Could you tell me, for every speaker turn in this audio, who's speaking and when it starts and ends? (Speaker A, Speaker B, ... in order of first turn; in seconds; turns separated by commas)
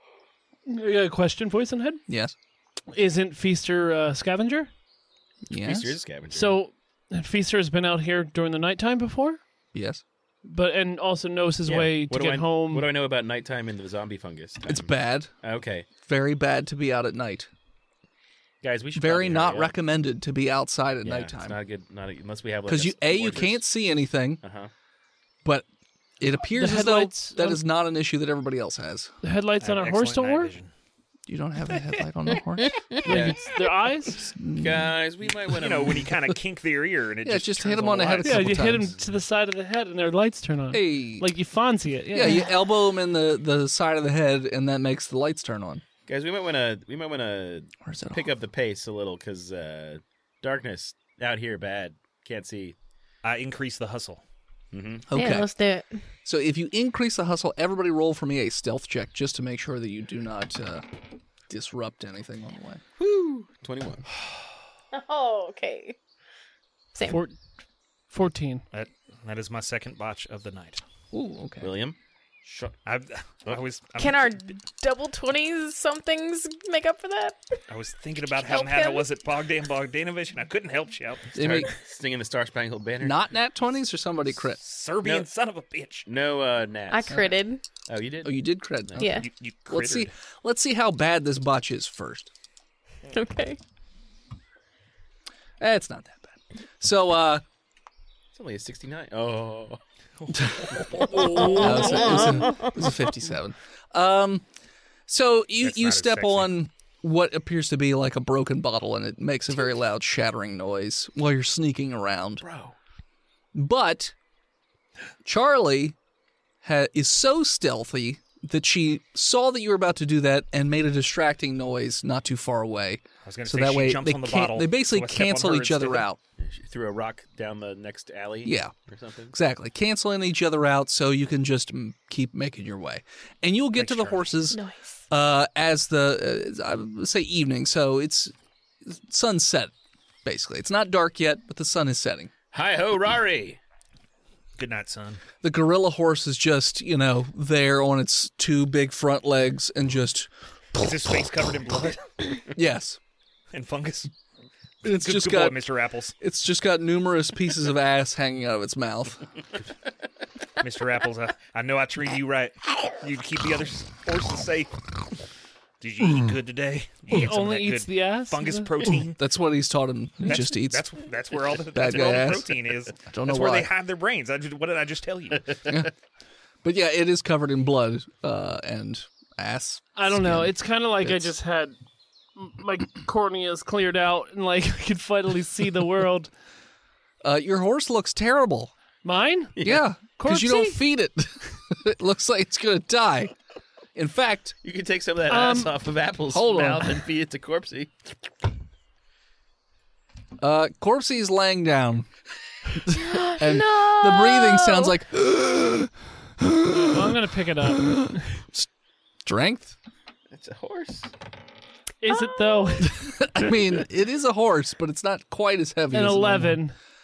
Speaker A: 0.7-2.0, Speaker B: 2.1-2.3, Speaker A: 2.9-4.7, Speaker B: 5.5-6.0, Speaker C: 5.5-6.6, Speaker A: 6.3-9.4, Speaker B: 9.7-10.0, Speaker A: 10.4-12.9, Speaker C: 11.7-15.9, Speaker B: 14.7-15.3, Speaker B: 16.0-17.5, Speaker C: 18.6-19.7, Speaker B: 18.9-21.6, Speaker C: 21.0-23.6, Speaker B: 22.7-24.4, Speaker C: 24.4-24.7, Speaker B: 26.2-29.1, Speaker A: 26.5-27.6, Speaker A: 29.2-30.5, Speaker D: 29.6-30.7, Speaker B: 31.3-33.4, Speaker C: 33.0-33.5, Speaker A: 33.1-34.3, Speaker B: 34.2-34.9, Speaker C: 34.6-36.1, Speaker D: 35.5-38.9, Speaker B: 37.2-38.9, Speaker A: 38.2-42.5, Speaker B: 40.7-41.3, Speaker B: 42.1-45.8, Speaker C: 46.0-52.8, Speaker B: 47.8-48.3, Speaker D: 53.2-54.2, Speaker C: 54.7-55.0, Speaker B: 55.1-55.5, Speaker E: 55.1-55.9, Speaker B: 56.2-60.8, Speaker B: 61.5-62.8, Speaker C: 63.0-64.0, Speaker E: 64.9-66.0, Speaker E: 66.9-67.2, Speaker A: 67.0-67.3, Speaker A: 68.1-68.6, Speaker D: 68.7-70.8, Speaker B: 71.1-71.7, Speaker C: 71.6-72.8, Speaker D: 72.8-74.4, Speaker E: 74.0-77.4, Speaker D: 77.7-81.3, Speaker E: 78.4-79.1, Speaker C: 81.3-83.2, Speaker B: 81.3-81.7, Speaker B: 83.0-84.6, Speaker D: 84.6-86.1, Speaker C: 85.0-85.3, Speaker C: 86.0-87.2, Speaker E: 86.9-87.6, Speaker C: 87.9-89.1, Speaker B: 88.2-92.3, Speaker E: 89.0-89.3, Speaker D: 89.2-90.1, Speaker E: 93.1-93.6, Speaker B: 95.6-97.4, Speaker C: 98.3-99.8, Speaker D: 100.2-101.2, Speaker B: 100.3-100.7, Speaker C: 100.9-101.5, Speaker E: 101.0-102.7, Speaker A: 101.1-102.2, Speaker B: 101.5-104.4, Speaker B: 105.1-112.4, Speaker D: 105.6-106.5, Speaker C: 112.4-112.8, Speaker B: 113.5-114.1, Speaker B: 115.2-116.0, Speaker B: 116.6-126.2, Speaker D: 123.2-126.0, Speaker C: 126.4-129.3, Speaker B: 128.4-128.7, Speaker B: 129.3-138.3, Speaker D: 133.8-134.2, Speaker E: 134.5-134.9, Speaker B: 138.8-139.7, Speaker B: 140.2-142.3, Speaker C: 142.5-143.6, Speaker D: 144.6-145.2, Speaker B: 145.4-150.3, Speaker D: 150.8-152.0, Speaker B: 152.5-153.0, Speaker D: 153.5-154.1, Speaker B: 154.8-155.6, Speaker D: 154.8-156.1, Speaker B: 156.2-159.2, Speaker D: 160.6-164.9, Speaker D: 165.8-169.2, Speaker A: 167.1-168.7, Speaker B: 168.9-170.8, Speaker D: 170.2-175.7, Speaker B: 171.7-172.5, Speaker B: 173.0-173.7, Speaker B: 176.6-181.3, Speaker A: 179.9-181.7, Speaker A: 182.3-186.3, Speaker B: 187.2-188.7, Speaker A: 189.0-190.8, Speaker C: 189.6-189.8, Speaker B: 189.6-193.3, Speaker B: 193.9-194.6, Speaker C: 194.6-197.9, Speaker A: 195.3-195.8, Speaker B: 196.3-197.0, Speaker B: 200.4-202.1, Speaker B: 202.7-208.7, Speaker E: 202.9-204.9, Speaker A: 206.8-208.2, Speaker B: 209.2-209.7, Speaker C: 210.3-211.1, Speaker A: 212.0-213.1, Speaker E: 212.1-212.9, Speaker B: 212.8-216.6, Speaker A: 215.9-216.7